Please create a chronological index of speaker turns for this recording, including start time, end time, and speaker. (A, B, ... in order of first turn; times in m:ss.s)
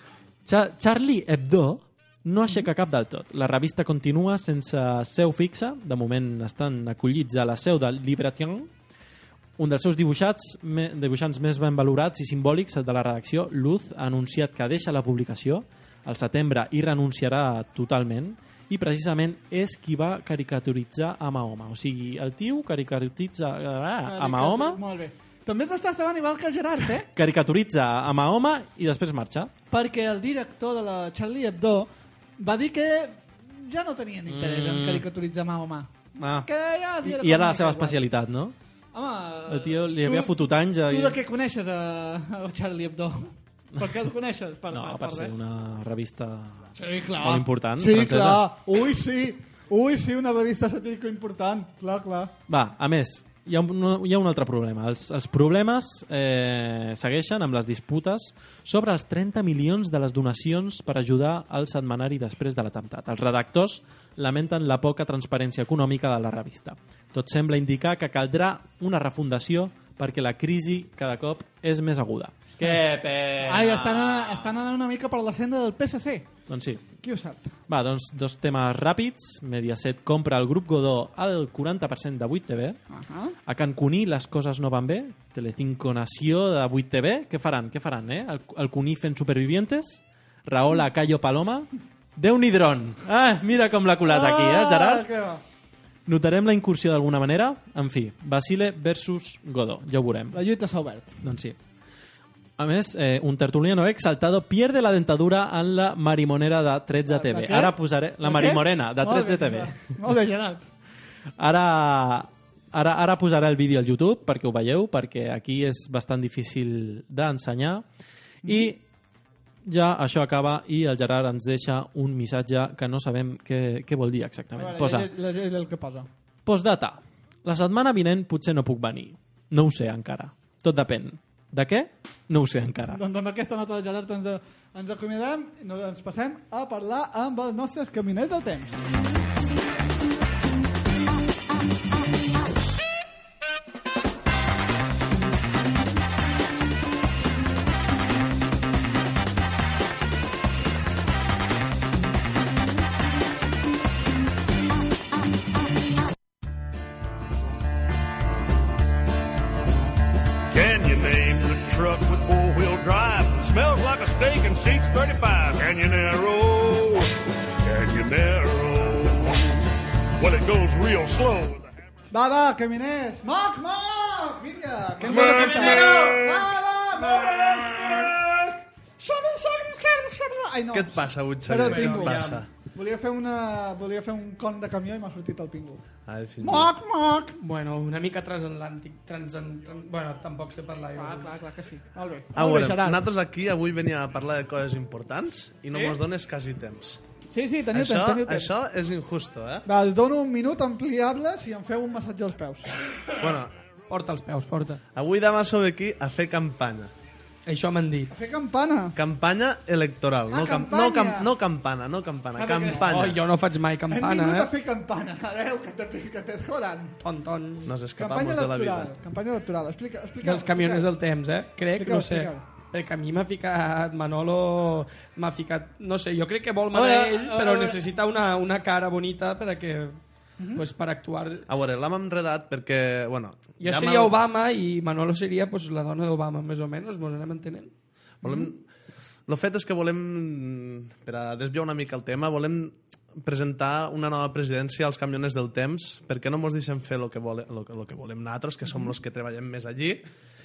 0:00.4-0:08.7 A
0:09.6-0:24.8 A
0:24.0-0:27.1 B
0:27.1-0:29.5 A
0:29.7-0:35.9 B
0:34.3-0:35.0 A
0:36.2-0:36.5 A
0:36.4-0:38.0 B
0:37.0-0:38.5 A
0:38.9-0:45.3 B
0:39.5-0:41.2 A
0:44.7-0:48.4 A
0:46.8-0:52.3 B
0:52.5-1:14.5 A
1:13.4-1:16.3 B
1:16.5-1:16.8 A
1:17.0-1:17.5 B
1:17.7-1:22.8 A
1:22.9-1:23.3 B
1:23.4-1:35.0 A
1:34.0-1:35.4 B
1:36.1-1:40.4 A
1:40.3-1:41.2 B
1:41.2-1:41.6 A
1:42.6-1:49.7 A
1:47.1-1:50.6 B
1:51.4-1:57.8 A
1:58.4-1:58.8 A
1:58.4-1:58.7 B
1:59.6-2:05.1 A
2:04.6-2:06.1 B
2:06.4-2:13.0 A
2:12.9-2:18.8 B
2:40.5-2:47.1 C
2:47.6-2:49.6 C
2:50.2-2:51.7 C
2:52.1-2:58.1 B
2:55.2-2:56.1 D
2:59.0-3:05.8 B
3:00.7-3:02.5 D
3:01.6-3:02.4 E
3:06.0-3:06.7 D
3:06.4-3:07.4 B
3:07.4-3:11.3 E
3:10.9-3:13.0 B
3:12.3-3:17.0 D
3:17.3-3:18.5 B
3:17.7-3:19.7 D
3:19.6-3:22.6 B
3:23.2-3:23.5 D
3:23.9-3:24.8 E
3:24.9-3:26.9 D
3:27.4-3:28.1 E
3:28.1-3:29.0 B
3:29.0-3:33.2 D
3:30.3-3:31.3 B
3:32.4-3:32.9 B
3:32.8-3:34.5 E
3:33.9-3:37.0 B
3:37.0-3:37.8 E
3:37.6-3:38.9 D
3:38.0-3:40.9 B
3:40.2-3:50.0 E
3:41.7-3:42.4 B
3:46.7-3:47.8 B
3:50.4-3:50.6 B
3:50.6-3:51.4 E
3:51.5-3:54.2 D
3:53.6-3:57.7 E
3:58.2-3:58.5 B
3:58.2-3:58.6 D
3:59.3-4:10.0 D